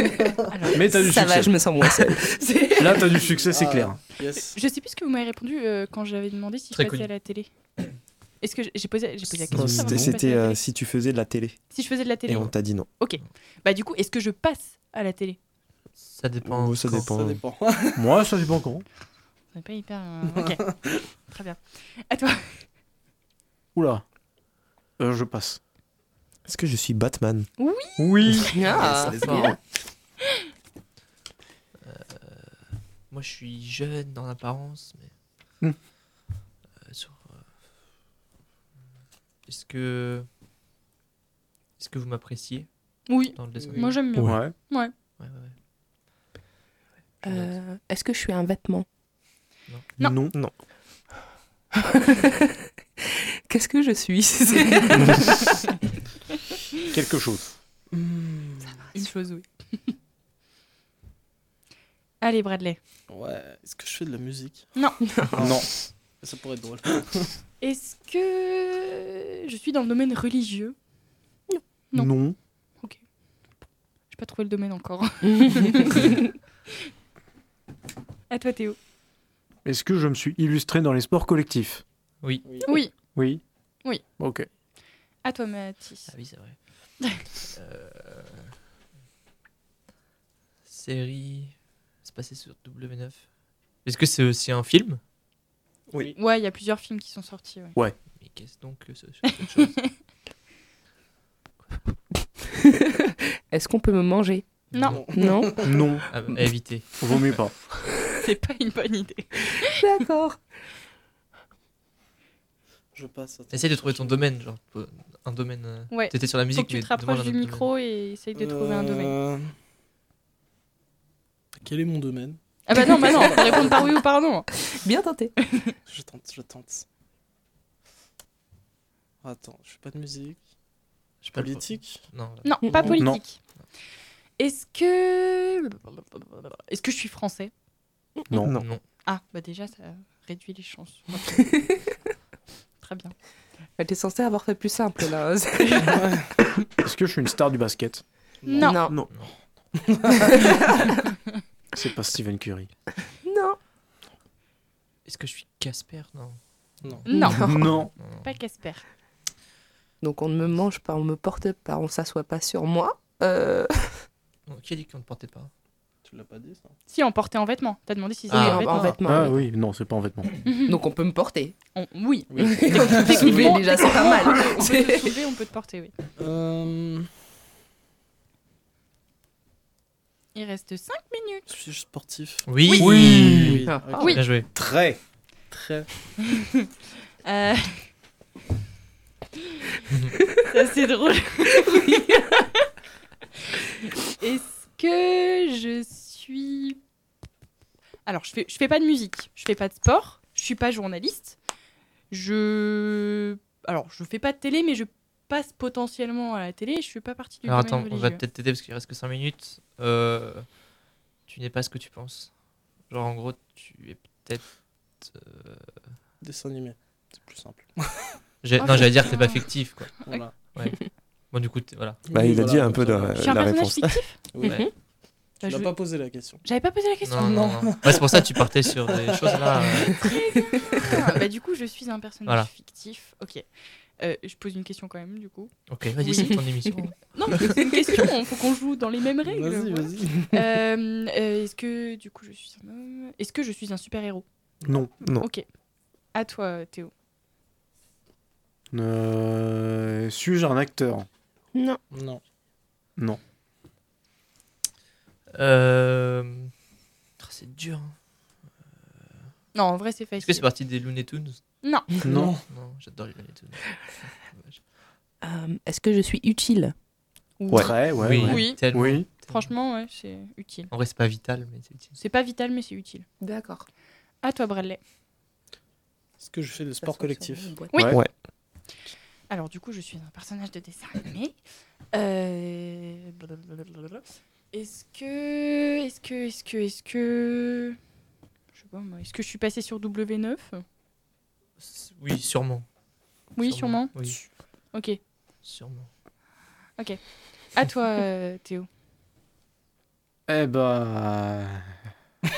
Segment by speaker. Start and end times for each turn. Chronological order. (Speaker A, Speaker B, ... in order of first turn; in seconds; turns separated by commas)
Speaker A: 0.5-1.0, Speaker B: 0.7-1.7, Speaker C: 0.9-3.1, Speaker B: 2.8-4.0, Speaker D: 3.2-4.6, Speaker A: 4.3-7.5, Speaker E: 6.7-7.1, Speaker A: 8.4-10.6, Speaker F: 9.5-11.7, Speaker B: 9.7-9.9, Speaker A: 11.7-15.4, Speaker F: 12.2-12.9, Speaker E: 16.0-17.1, Speaker F: 16.4-17.4, Speaker D: 17.1-18.1, Speaker B: 18.0-18.9, Speaker A: 19.5-20.6, Speaker D: 20.4-20.8, Speaker A: 21.3-22.7, Speaker B: 23.8-24.0, Speaker B: 25.0-25.6, Speaker F: 26.4-27.5, Speaker A: 27.6-27.9, Speaker B: 28.0-28.6, Speaker C: 28.5-29.6, Speaker E: 28.6-29.6, Speaker E: 31.8-32.6, Speaker E: 33.1-35.1, Speaker E: 36.9-37.4, Speaker E: 39.5-40.3, Speaker E: 41.8-42.7, Speaker A: 43.1-44.9, Speaker E: 43.3-44.0, Speaker D: 43.6-44.0, Speaker B: 44.2-44.5, Speaker E: 45.2-45.5, Speaker C: 47.2-48.9, Speaker E: 47.2-47.5, Speaker B: 50.0-50.4, Speaker C: 53.5-55.5, Speaker B: 56.9-57.5, Speaker D: 57.9-58.8, Speaker A: 58.9-59.5, Speaker A: 62.2-62.8, Speaker D: 63.1-64.7, Speaker C: 65.1-65.4, Speaker D: 65.3-65.6, Speaker B: 65.4-65.7, Speaker D: 66.1-67.3, Speaker A: 67.6-70.8, Speaker B: 71.9-72.4, Speaker A: 74.1-76.1, Speaker C: 75.4-76.0, Speaker A: 78.3-78.8, Speaker B: 79.7-81.8, Speaker E: 82.2-82.6, Speaker D: 82.4-82.7, Speaker A: 82.7-83.0, Speaker B: 83.1-83.4, Speaker B: 84.2-84.5, Speaker A: 85.2-86.1, Speaker E: 86.1-88.5, Speaker E: 90.7-93.2, Speaker E: 93.8-95.0, Speaker D: 95.9-96.2, Speaker A: 96.2-97.8, Speaker E: 98.2-99.9, Speaker A: 99.6-99.9, Speaker C: 103.5-105.7, Speaker E: 104.7-105.0, Speaker A: 104.7-105.1, Speaker D: 104.9-105.9, Speaker B: 105.6-106.1, Speaker E: 106.1-107.5, Speaker B: 107.0-107.7, Speaker A: 108.2-109.7, Speaker C: 109.6-110.4, Speaker D: 112.9-114.3, Speaker E: 113.5-117.7, Speaker A: 115.9-119.2, Speaker D: 118.3-119.5, Speaker D: 121.6-124.0, Speaker A: 122.7-124.5, Speaker C: 123.0-123.4, Speaker C: 124.6-125.3, Speaker D: 125.9-126.8, Speaker D: 129.2-130.4, Speaker E: 131.2-132.5, Speaker D: 131.3-132.0, Speaker A: 132.4-133.4, Speaker C: 132.6-133.0, Speaker B: 133.0-133.2, Speaker A: 134.4-137.5, Speaker B: 138.3-138.6, Speaker F: 138.4-138.7, Speaker E: 138.5-138.8, Speaker A: 139.1-141.4, Speaker C: 141.4-141.7, Speaker A: 142.8-143.2, Speaker C: 143.8-146.2, Speaker D: 145.9-146.3, Speaker B: 146.8-148.0, Speaker D: 148.4-148.8, Speaker A: 148.5-148.8, Speaker C: 148.6-149.0, Speaker D: 149.8-150.4, Speaker C: 150.3-150.9, Speaker B: 151.8-152.7, Speaker C: 153.2-153.6, Speaker E: 155.1-158.4, Speaker D: 156.8-157.1, Speaker A: 157.1-158.8, Speaker C: 157.1-157.7, Speaker B: 157.4-157.9, Speaker C: 160.0-164.1, Speaker E: 164.5-165.5, Speaker D: 166.0-166.8, Speaker A: 166.9-169.0, Speaker E: 168.3-168.9, Speaker C: 168.3-169.4, Speaker B: 169.0-170.3, Speaker A: 170.4-170.8, Speaker C: 170.7-171.6, Speaker A: 171.8-175.9, Speaker D: 172.3-173.8, Speaker C: 172.4-175.2, Speaker D: 176.2-177.1, Speaker A: 180.3-181.4, Speaker D: 181.5-182.5, Speaker E: 182.5-184.5, Speaker A: 182.7-183.2, Speaker B: 182.8-183.7, Speaker D: 183.1-184.2, Speaker C: 183.6-184.1, Speaker A: 183.9-184.2, Speaker B: 184.5-185.0, Speaker D: 185.4-185.9, Speaker A: 186.3-186.7, Speaker A: 187.2-187.9, Speaker A: 190.5-192.1, Speaker C: 191.6-192.3, Speaker A: 194.1-196.8, Speaker A: 198.1-201.4, Speaker A: 202.1-208.2, Speaker E: 207.5-210.5, Speaker E: 211.3-212.3, Speaker E: 212.9-214.5, Speaker E: 215.0-215.7, Speaker D: 216.2-218.1, Speaker E: 218.4-220.0, Speaker A: 218.6-219.5, Speaker D: 220.0-220.5, Speaker E: 221.3-222.0, Speaker D: 222.1-223.4, Speaker F: 222.1-224.0, Speaker A: 223.2-224.2, Speaker D: 224.3-224.6, Speaker C: 224.4-224.7, Speaker D: 225.4-226.4, Speaker A: 225.4-225.7, Speaker A: 226.4-227.4, Speaker E: 227.1-230.2, Speaker D: 227.2-229.7, Speaker A: 229.9-233.4, Speaker A: 234.0-236.4, Speaker E: 235.7-237.6, Speaker A: 237.1-244.2, Speaker D: 239.2-240.6, Speaker F: 245.0-245.3, Speaker A: 245.2-245.4, Speaker A: 246.1-246.9, Speaker B: 248.7-251.1, Speaker C: 251.5-251.8, Speaker D: 251.9-252.2, Speaker E: 255.3-256.5, Speaker E: 257.2-258.0, Speaker A: 259.5-260.4, Speaker E: 260.2-261.4, Speaker A: 261.6-261.9, Speaker B: 262.0-262.4, Speaker D: 262.1-262.4, Speaker E: 262.5-264.6, Speaker C: 265.2-266.8, Speaker A: 267.4-270.7, Speaker B: 267.5-269.1, Speaker E: 268.0-269.5, Speaker E: 270.7-272.0, Speaker A: 272.0-273.1, Speaker C: 273.2-273.7, Speaker A: 274.2-274.8, Speaker D: 276.2-277.6, Speaker C: 276.8-277.8, Speaker A: 277.7-278.0, Speaker A: 279.3-281.4, Speaker A: 281.9-287.8, Speaker A: 288.6-290.6, Speaker E: 291.6-292.7, Speaker A: 293.4-294.1, Speaker E: 293.4-294.2, Speaker A: 294.7-295.0, Speaker E: 295.4-295.9, Speaker A: 296.8-298.7, Speaker B: 300.3-301.7